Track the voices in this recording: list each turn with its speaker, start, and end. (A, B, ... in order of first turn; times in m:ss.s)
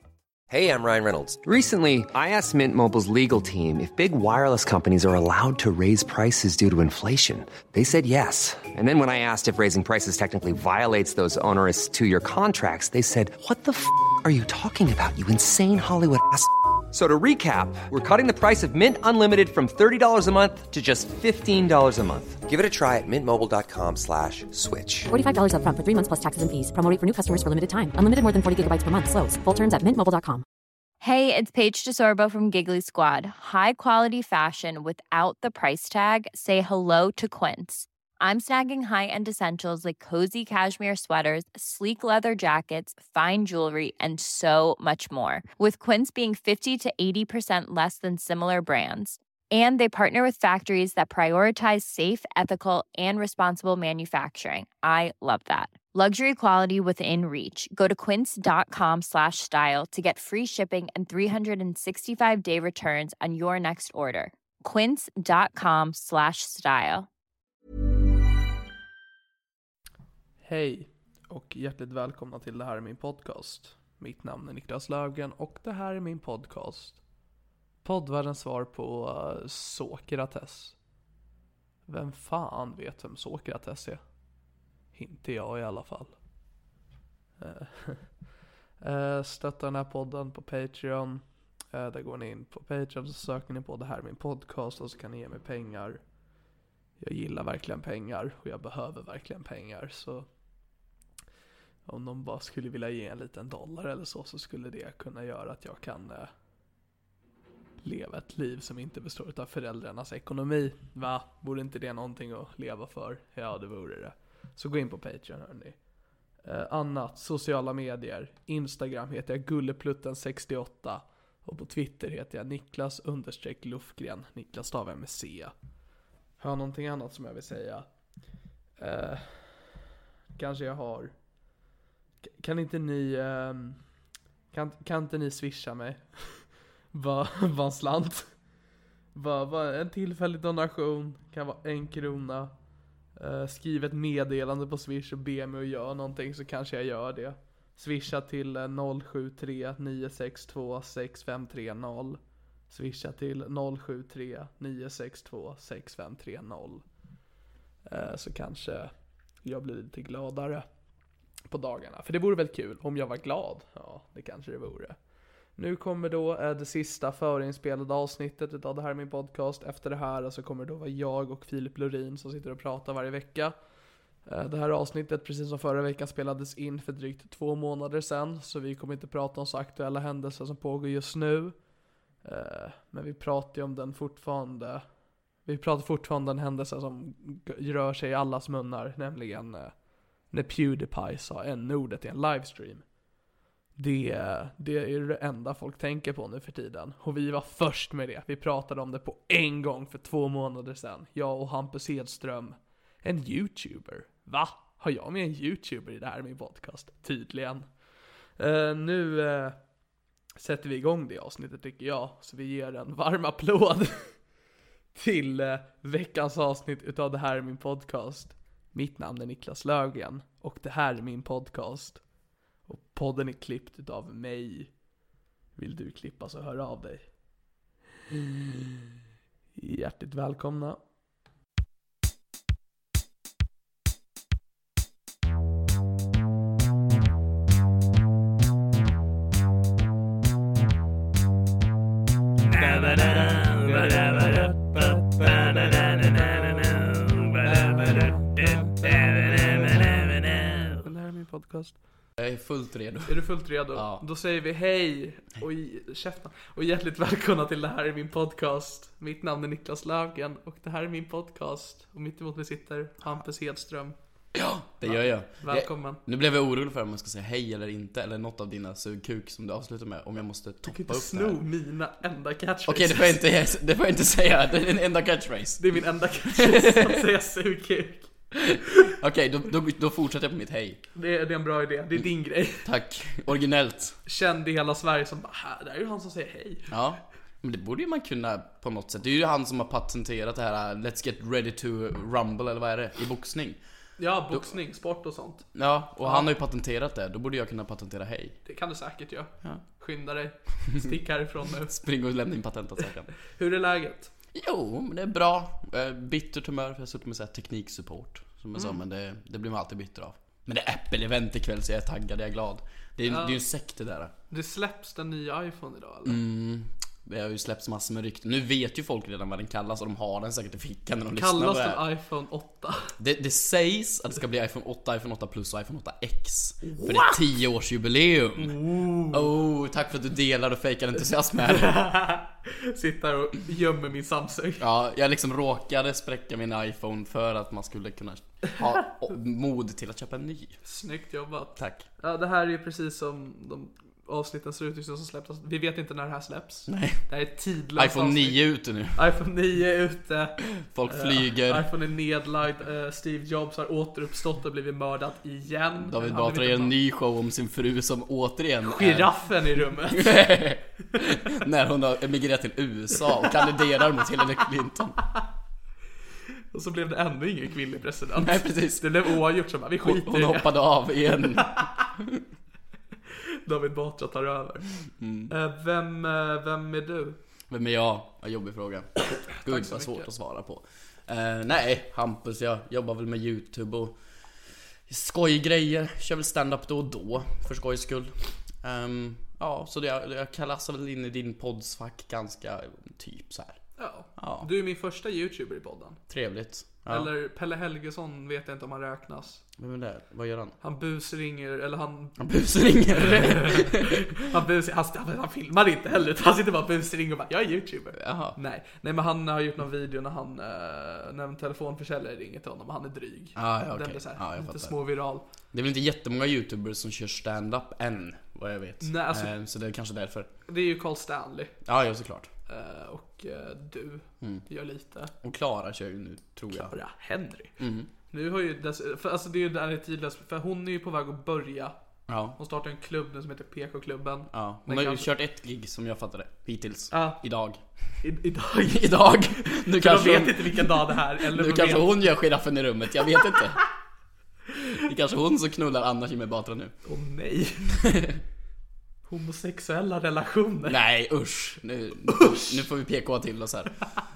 0:00.5-0:25.1 A
0:25.1-0:30.4 B
0:31.0-1:07.1 C
1:10.4-1:17.0 D
1:17.8-1:20.7 D
1:21.9-1:24.0 D
1:24.9-1:26.1 D
1:27.4-1:28.2 D
1:28.8-1:36.1 D
1:37.0-1:40.3 D
1:41.8-1:46.3 D
1:47.8-2:05.5 D
2:06.4-2:07.9 D
2:08.8-2:09.8 D
2:10.4-2:11.2 D
2:12.2-2:13.8 D
2:14.5-2:18.3 D
2:19.1-2:36.8 D
2:37.8-2:40.7 D
2:41.5-2:45.0 D
2:45.5-2:53.6 D
2:54.2-3:01.7 D
3:02.2-3:13.0 D
3:13.8-3:27.7 D
3:28.4-3:29.7 D
3:30.4-3:34.3 D
3:34.9-3:42.0 D
3:42.6-3:44.8 D
3:45.6-3:47.1 D
3:49.6-3:50.8 D
4:02.5-4:11.8 D
4:12.2-4:14.0 E
4:13.1-4:23.9 D
4:24.3-4:31.4 E
4:24.8-4:26.0 D
4:30.6-4:33.2 D
4:32.7-4:35.8 E
4:35.6-4:38.1 D
4:36.3-4:37.0 E
4:38.3-4:40.8 E
4:40.9-4:42.6 D
4:42.6-4:44.0 E
4:44.0-4:46.7 D
4:46.7-4:53.6 E
4:54.0-4:55.5 D
4:55.5-4:58.4 E
4:56.0-4:56.3 D
4:58.4-5:01.8 D
5:01.6-5:03.1 E
5:03.3-5:04.1 D
5:04.3-5:14.1 E
5:13.0-5:13.4 D
5:14.3-5:16.2 D
5:16.0-5:21.8 E
5:21.1-5:22.9 D
5:23.0-5:31.8 E
5:26.7-5:27.2 D
5:28.4-5:29.2 D
5:31.5-5:34.6 D
5:34.6-5:40.6 E
5:40.6-5:56.7 D
5:41.6-5:41.8 E
5:46.7-5:47.0 E
5:47.8-5:49.0 E
5:50.6-5:51.7 E
5:55.8-6:05.0 E
5:58.6-6:00.2 D
6:06.5-6:10.5 D
6:08.1-6:09.2 E
6:09.8-6:12.2 E
6:11.4-6:11.8 D
6:13.4-6:14.7 D
6:15.0-6:15.3 E
6:15.3-6:17.2 D
6:17.5-6:24.0 E
6:19.3-6:20.1 D
6:24.9-6:33.6 E
6:33.8-6:36.0 D
6:34.2-6:34.5 E
6:36.1-6:37.1 E
6:36.9-6:39.4 D
6:39.6-6:40.6 E
6:40.6-6:42.2 D
6:42.2-6:44.0 E
6:42.9-6:55.2 D
6:47.9-6:48.4 E
6:53.4-6:54.7 E
6:55.5-7:00.3 E
6:58.8-6:59.3 D
7:00.5-7:01.5 D
7:01.6-7:02.3 E
7:02.5-7:05.1 D
7:05.2-7:06.7 E
7:06.5-7:07.5 D
7:07.6-7:07.9 E
7:08.1-7:11.7 D
7:12.1-7:12.4 E
7:12.4-7:15.1 D
7:14.3-7:17.6 E
7:16.9-7:17.2 D
7:18.0-7:22.1 D
7:18.6-7:23.6 E
7:24.6-7:26.7 E
7:26.8-7:27.7 D
7:27.8-7:28.2 E
7:29.1-7:30.8 D
7:30.6-7:33.8 E
7:32.1-7:32.6 D